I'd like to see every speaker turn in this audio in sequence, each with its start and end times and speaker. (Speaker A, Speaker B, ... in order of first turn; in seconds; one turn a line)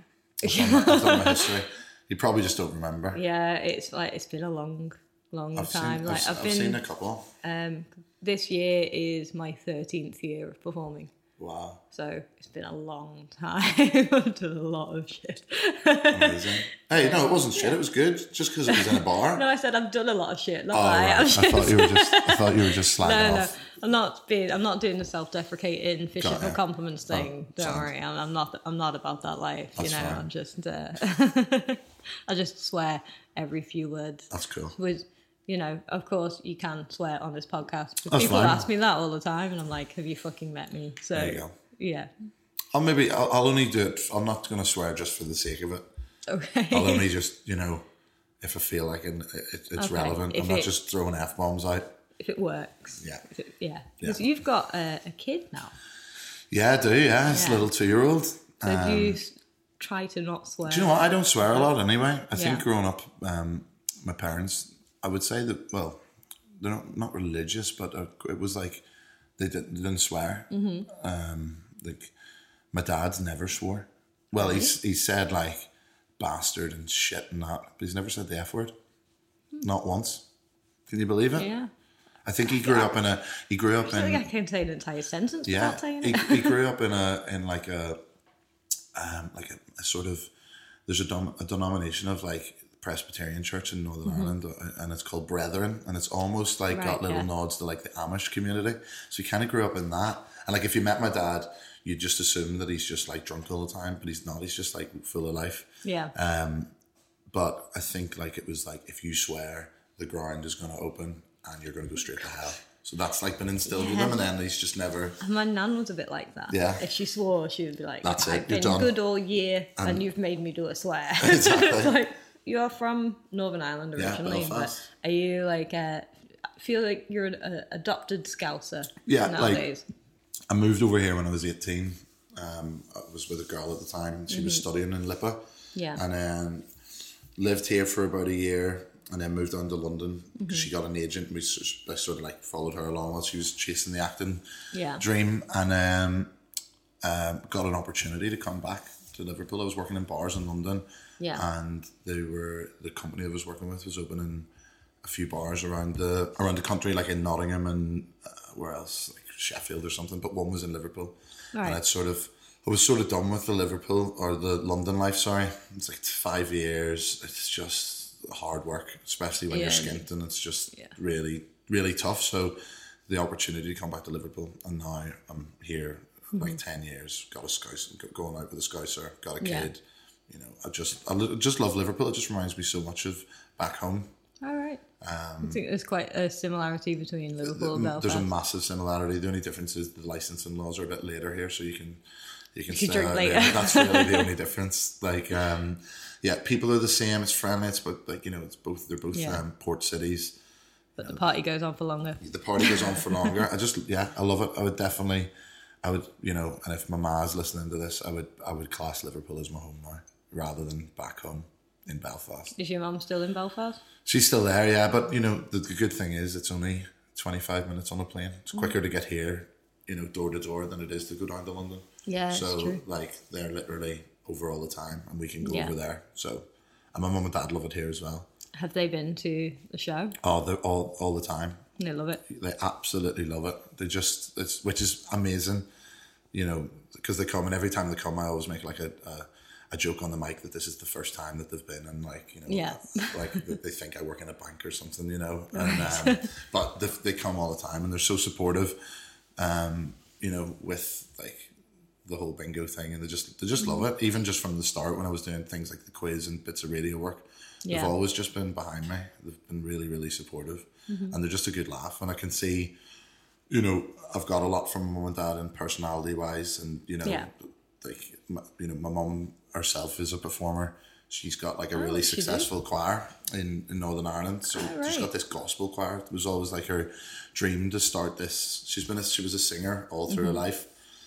Speaker A: 0.4-3.2
Speaker B: 0.4-1.5
Speaker B: 3.1-6.8
Speaker A: 5.5-7.3
Speaker B: 7.4-11.1
Speaker A: 11.4-11.8
Speaker B: 11.9-17.8
Speaker A: 16.1-19.4
Speaker B: 18.7-42.1
Speaker A: 20.7-23.5
Speaker A: 26.2-27.9
Speaker A: 29.8-30.2
Speaker A: 34.3-34.7
Speaker A: 38.1-38.6
Speaker A: 41.1-41.5
Speaker A: 42.7-45.9
Speaker B: 46.3-47.0
Speaker A: 46.7-47.8
Speaker A: 48.4-51.9
Speaker B: 49.8-50.7
Speaker B: 52.2-55.7
Speaker A: 56.5-59.2
Speaker B: 57.3-57.7
Speaker B: 58.6-61.7
Speaker A: 60.6-66.0
Speaker B: 62.3-62.6
Speaker A: 66.6-68.8
Speaker A: 69.4-72.1
Speaker B: 70.5-70.9
Speaker A: 72.7-78.7
Speaker B: 74.4-74.7
Speaker A: 79.6-80.2
Speaker A: 80.9-81.5
Speaker B: 81.3-81.7
Speaker A: 82.2-84.3
Speaker B: 82.5-82.9
Speaker B: 83.8-86.6
Speaker A: 85.5-88.0
Speaker A: 88.9-90.3
Speaker A: 90.8-106.7
Speaker B: 94.0-94.3
Speaker B: 96.7-97.3
Speaker B: 105.8-106.1
Speaker A: 107.3-115.2
Speaker B: 113.7-114.2
Speaker B: 115.2-129.8
Speaker A: 116.5-116.8
Speaker A: 118.0-118.9
Speaker A: 119.8-120.0
Speaker A: 121.2-122.0
Speaker A: 124.0-124.8
Speaker A: 129.1-129.7
Speaker A: 130.5-135.4
Speaker B: 134.3-134.6
Speaker B: 135.7-136.0
Speaker A: 135.9-136.7
Speaker A: 137.3-144.4
Speaker B: 140.4-140.7
Speaker B: 144.7-145.0
Speaker A: 145.0-146.3
Speaker A: 147.0-154.5
Speaker B: 151.2-151.4
Speaker A: 155.0-184.1
Speaker B: 161.5-161.8
Speaker B: 169.5-170.0
Speaker B: 176.3-176.6
Speaker B: 179.4-179.7
Speaker B: 184.4-184.8
Speaker A: 185.0-185.6
Speaker B: 185.4-188.3
Speaker A: 187.4-192.0
Speaker A: 192.5-200.3
Speaker B: 192.7-194.3
Speaker B: 199.1-199.4
Speaker B: 201.0-203.4
Speaker A: 202.2-205.3
Speaker A: 205.8-212.5
Speaker B: 212.6-213.8
Speaker A: 214.0-228.3
Speaker B: 222.1-222.8
Speaker B: 225.4-225.7
Speaker B: 228.5-230.2
Speaker A: 230.2-231.6
Speaker B: 231.8-232.2
Speaker A: 232.3-235.7
Speaker A: 236.3-248.8
Speaker B: 242.5-243.6
Speaker B: 245.5-246.3
Speaker A: 249.4-251.5
Speaker A: 252.0-262.7
Speaker B: 253.6-253.8
Speaker B: 257.6-257.9
Speaker B: 260.9-261.1
Speaker A: 263.5-280.7
Speaker B: 271.7-272.5
Speaker B: 274.5-275.1
Speaker B: 280.1-280.4